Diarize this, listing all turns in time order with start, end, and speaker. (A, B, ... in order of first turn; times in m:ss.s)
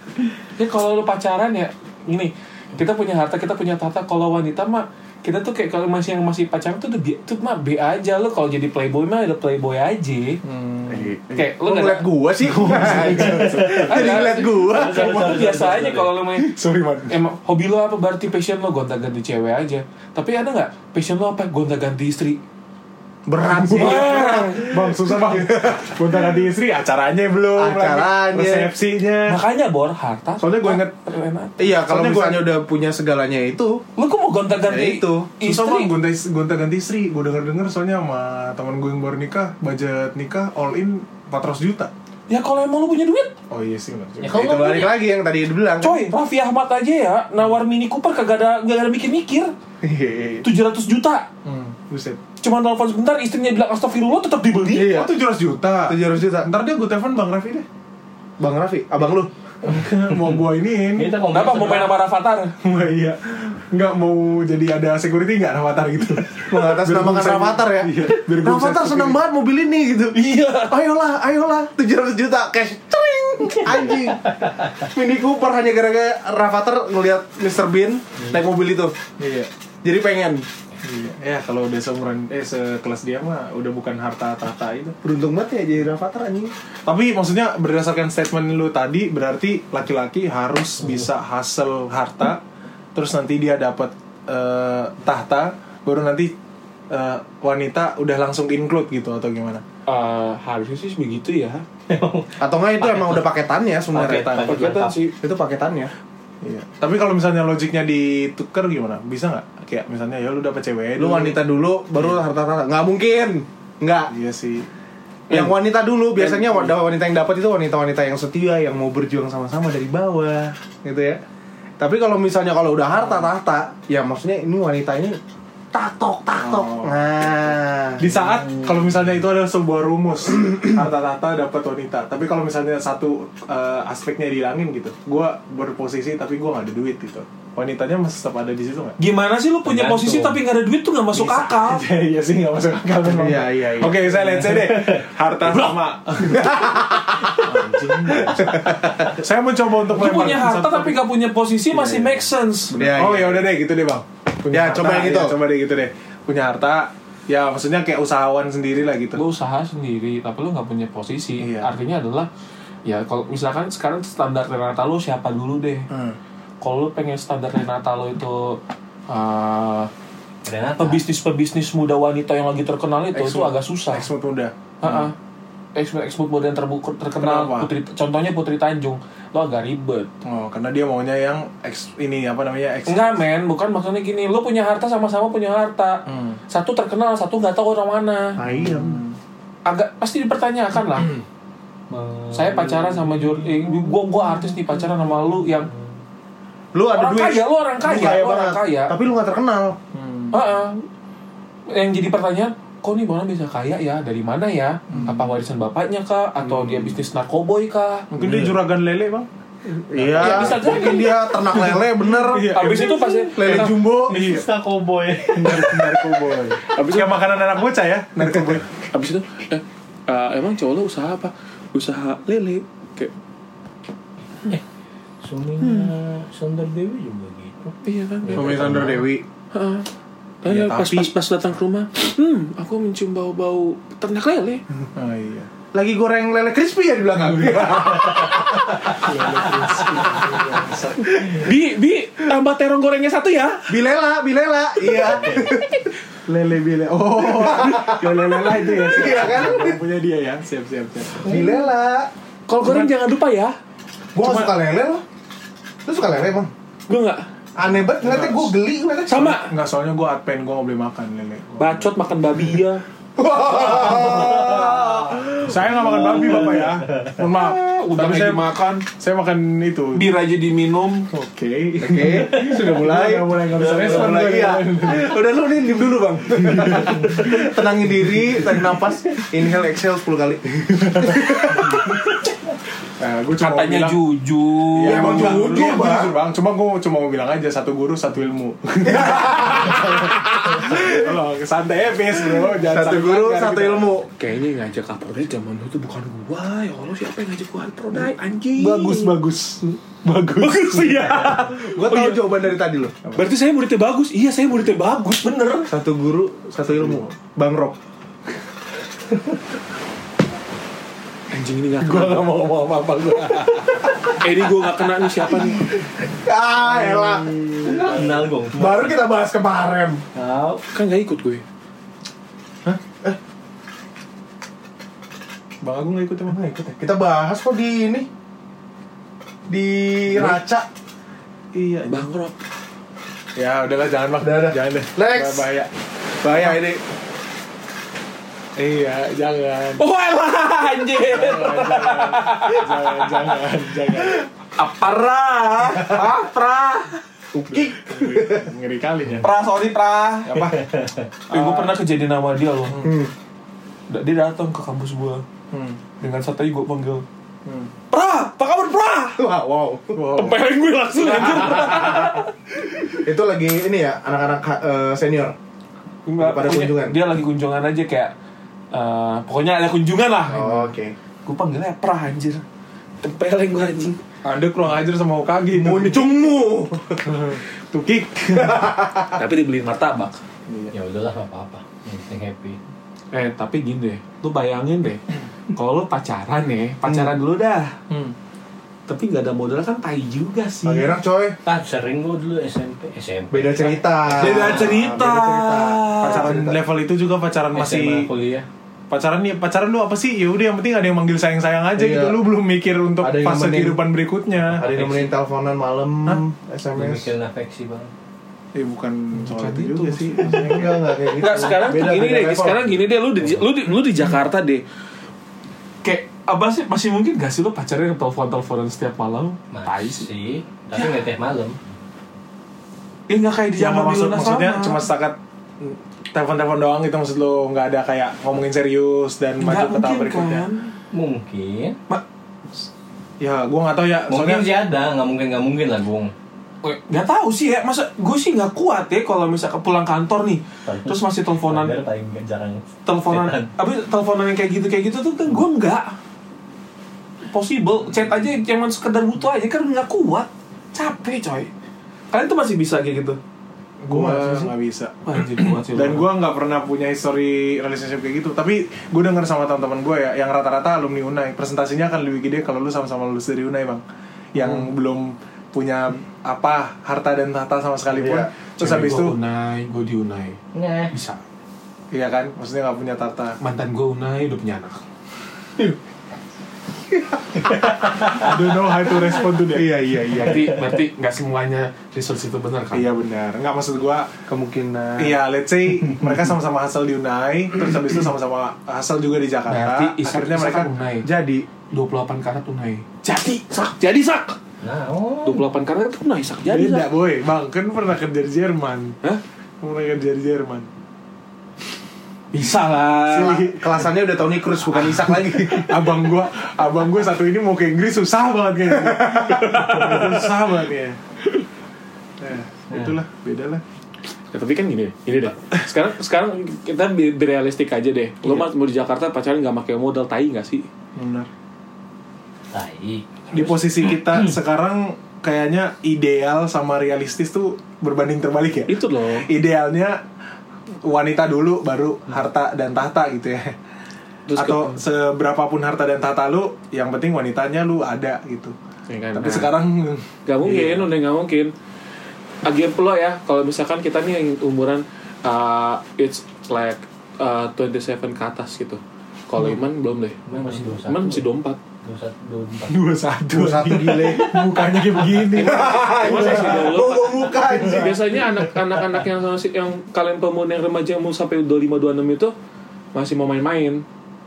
0:00.6-0:10.4 A
0:10.4-0:11.1 B
0:10.9-0:15.4 C
0:11.4-0:12.1 A
0:12.4-0:14.2 B
0:12.9-0:16.6 A
0:13.2-0:16.2 D
0:16.4-0:17.2 B
0:17.1-0:22.4 A
0:23.3-0:25.8 C
0:23.5-0:29.4 B
0:23.8-0:24.8 A
0:27.6-0:28.7 C
0:29.3-0:31.6 A
0:30.4-0:30.9 B
0:31.6-0:33.8 C
0:31.9-0:32.5 B
0:34.0-0:35.9 A
0:34.6-0:35.3 C
0:35.4-0:41.9 B
0:42.3-0:43.3 A
0:43.5-0:44.6 B
0:44.2-0:45.1 D
0:44.3-0:46.1 C
0:45.8-0:49.5 A
0:49.8-0:50.5 C
0:50.4-0:51.3 A
0:51.4-0:52.2 B
0:52.4-0:54.9 A
0:54.7-0:55.1 C
0:54.8-0:57.7 B
0:55.9-0:56.5 C
0:58.4-0:59.3 C
0:59.6-1:01.2 B
1:00.3-1:01.9 D
1:01.2-1:02.6 A
1:02.6-1:09.2 B
1:06.5-1:19.0 C
1:10.1-1:10.8 A
1:19.2-1:19.5 B
1:19.8-1:20.4 C
1:20.8-1:25.0 B
1:25.0-1:26.5 C
1:26.8-1:32.4 B
1:33.0-1:36.3 B
1:36.9-1:39.6 B
1:39.9-1:41.6 A
1:41.9-1:43.3 D
1:42.4-1:44.5 C
1:43.9-1:45.0 D
1:44.0-1:44.5 B
1:44.5-1:45.2 A
1:45.2-1:45.9 C
1:46.4-1:51.4 B
1:51.0-1:54.1 C
1:54.1-1:54.7 B
1:55.3-2:01.2 C
2:01.8-2:05.2 C
2:03.0-2:03.3 B
2:05.7-2:08.1 C
2:06.4-2:07.0 B
2:08.0-2:19.0 B
2:19.0-2:21.9 A
2:19.6-2:20.4 D
2:21.2-2:31.0 B
2:23.0-2:24.7 C
2:26.2-2:27.5 C
2:28.3-2:29.1 C
2:29.9-2:32.8 A
2:31.7-2:32.2 B
2:32.7-2:39.2 B
2:32.8-2:33.5 C
2:34.5-2:35.4 C
2:39.2-2:42.3 A
2:41.4-2:41.7 B
2:42.8-2:45.9 A
2:45.9-2:46.2 B
2:46.6-2:49.9 A
2:50.4-2:51.0 D
2:50.8-2:54.1 A
2:53.1-2:55.1 B
2:54.8-2:55.2 A
2:55.8-3:00.1 A
2:57.2-2:57.7 B
3:00.2-3:03.2 B
3:02.9-3:08.4 A
3:06.1-3:06.4 B
3:08.4-3:09.0 C
3:08.4-3:09.2 B
3:09.7-3:11.1 A
3:10.9-3:11.2 B
3:11.9-3:14.0 D
3:12.3-3:15.7 A
3:15.2-3:15.8 D
3:16.7-3:19.8 C
3:16.9-3:18.9 A
3:19.9-3:20.4 B
3:20.3-3:20.8 A
3:21.7-3:28.1 A
3:24.9-3:25.3 B
3:26.4-3:27.0 B
3:28.1-3:29.3 B
3:29.9-3:34.2 C
3:29.9-3:34.5 B
3:30.2-3:31.7 A
3:32.4-3:33.8 A
3:34.1-3:36.1 D
3:35.3-3:38.7 B
3:36.7-3:37.3 A
3:38.9-3:43.1 A
3:45.2-3:49.0 D
3:45.6-3:45.9 A
3:47.8-3:48.9 A
3:48.3-3:49.2 C
3:49.5-3:49.9 A
3:50.4-3:54.6 A
3:50.4-3:51.1 B
3:55.0-3:55.5 B
3:55.7-3:59.4 C
3:57.2-3:58.4 B
3:58.9-4:01.4 B
4:00.3-4:00.9 C
4:01.2-4:03.7 A
4:03.7-4:05.9 C
4:06.3-4:11.4 B
4:07.2-4:09.8 C
4:11.2-4:12.1 C
4:12.5-4:13.6 A
4:12.6-4:12.9 B
4:14.2-4:15.0 C
4:14.2-4:14.5 B
4:15.9-4:16.5 C
4:16.9-4:17.2 A
4:17.6-4:19.4 C
4:18.0-4:18.6 B
4:19.1-4:19.5 A
4:19.4-4:21.9 B
4:21.6-4:22.8 A
4:23.2-4:25.4 C
4:23.6-4:24.7 B
4:23.8-4:27.2 D
4:25.3-4:30.1 B
4:27.3-4:28.8 A
4:29.9-4:31.1 A
4:31.1-4:35.2 B
4:31.8-4:41.8 C
4:33.6-4:34.2 D
4:36.3-4:37.4 B
4:40.8-4:41.8 B
4:43.0-4:44.0 B
4:43.4-4:45.6 A
4:44.8-4:53.9 B
4:44.8-4:46.2 C
4:48.8-4:50.8 C
4:52.5-4:54.1 C
4:54.2-4:59.2 A
4:58.6-5:01.6 B
5:00.4-5:02.3 A
5:01.6-5:03.0 C
5:03.2-5:05.7 A
5:05.7-5:07.8 C
5:06.6-5:07.1 B
5:11.3-5:12.3 A
5:11.8-5:14.1 B
5:14.1-5:15.6 A
5:16.1-5:17.9 C
5:16.6-5:18.3 B
5:17.6-5:19.0 D
5:18.5-5:20.0 C
5:20.2-5:20.6 D
5:20.7-5:21.4 A
5:25.6-5:26.5 B
5:26.4-5:28.1 C
5:29.5-5:30.7 C
5:31.5-5:32.1 B
5:31.9-5:32.4 A
5:33.4-5:35.7 B
5:34.2-5:35.5 C
5:36.2-5:36.8 C
5:36.3-5:36.6 B
5:38.6-5:39.8 B
5:39.8-5:43.4 A
5:41.1-5:44.2 B
5:44.6-5:47.0 A
5:47.3-5:48.4 C
5:47.4-5:49.3 B
5:49.2-5:50.4 A
5:50.3-5:50.7 B
5:50.5-5:51.1 D
5:51.3-5:52.8 A
5:51.3-5:51.7 B
5:52.7-5:53.0 B
5:52.8-5:53.1 C
5:53.9-5:55.2 A
5:55.5-5:55.8 B
5:56.0-5:57.0 A
5:57.5-5:57.7 B
5:57.9-5:59.2 A
5:59.2-6:00.0 C
6:00.0-6:00.4 B
6:00.2-6:02.3 A
6:03.0-6:05.4 C
6:06.1-6:08.1 A
6:06.2-6:07.0 C
6:08.7-6:10.6 A
6:10.3-6:11.0 C
6:11.2-6:12.4 A
6:13.0-6:14.0 A
6:14.2-6:16.2 B
6:15.5-6:17.1 C
6:17.0-6:18.7 B
6:18.3-6:19.2 C
6:19.1-6:20.2 A
6:20.5-6:20.7 B
6:20.7-6:22.6 D
6:23.1-6:25.0 A
6:25.5-6:27.8 A
6:28.9-6:30.9 A
6:30.6-6:31.4 C
6:31.4-6:34.8 D
6:33.3-6:36.6 C
6:34.1-6:36.3 A
6:36.0-6:38.1 B
6:37.5-6:38.5 D
6:38.9-6:44.6 B
6:41.8-6:42.2 C
6:43.0-6:43.8 C
6:44.6-6:47.1 C
6:44.6-6:45.1 D
6:46.8-6:47.9 D
6:48.5-6:50.8 B
6:49.2-6:54.6 A
6:50.3-6:52.7 C
6:55.8-7:00.1 A
6:59.5-7:01.6 D
7:00.7-7:01.1 A
7:03.1-7:04.8 A
7:03.6-7:10.5 B
7:09.4-7:10.7 A
7:10.9-7:11.8 D
7:13.2-7:14.5 B
7:14.1-7:16.1 D
7:16.6-7:21.8 A
7:20.7-7:23.5 D
7:22.9-7:25.9 A
7:27.3-7:31.5 A
7:32.1-7:33.2 A
7:33.8-7:49.2 B
7:33.9-7:34.5 C
7:35.0-7:36.1 A
7:47.9-7:48.3 C
7:48.6-7:50.4 A
7:50.5-7:50.9 D
7:50.9-7:51.2 A
7:51.9-7:53.4 B
7:53.4-7:54.8 A
7:58.1-7:59.8 B
7:59.5-8:00.5 C
8:00.1-8:02.9 A
8:00.3-8:00.7 D
8:02.7-8:04.1 B
8:04.3-8:05.2 C
8:05.0-8:10.7 B
8:09.5-8:11.1 A
8:11.0-8:11.5 C
8:11.7-8:14.4 A
8:14.6-8:15.4 D
8:15.2-8:16.9 A
8:16.5-8:19.0 B
8:19.6-8:20.7 B
8:22.3-8:23.4 A
8:23.1-8:25.8 C
8:23.1-8:23.6 B
8:25.1-8:31.0 B
8:28.8-8:29.8 C
8:29.6-8:30.2 A
8:32.2-8:33.6 B
8:32.7-8:33.0 D
8:34.3-8:40.7 A
8:41.0-8:41.3 B
8:42.5-8:44.2 D
8:43.3-8:50.0 B
8:48.7-8:49.3 A
8:50.8-8:53.6 B
8:54.3-8:54.8 A
8:54.4-8:58.6 B
8:58.9-8:59.6 A
8:59.1-9:00.9 B
9:00.3-9:01.5 A
9:02.4-9:11.6 A
9:10.3-9:11.2 D
9:11.8-9:12.8 D
9:12.7-9:16.8 B
9:13.3-9:14.4 C
9:15.3-9:22.3 A
9:15.4-9:18.1 C
9:17.6-9:17.9 B
9:22.9-9:23.8 A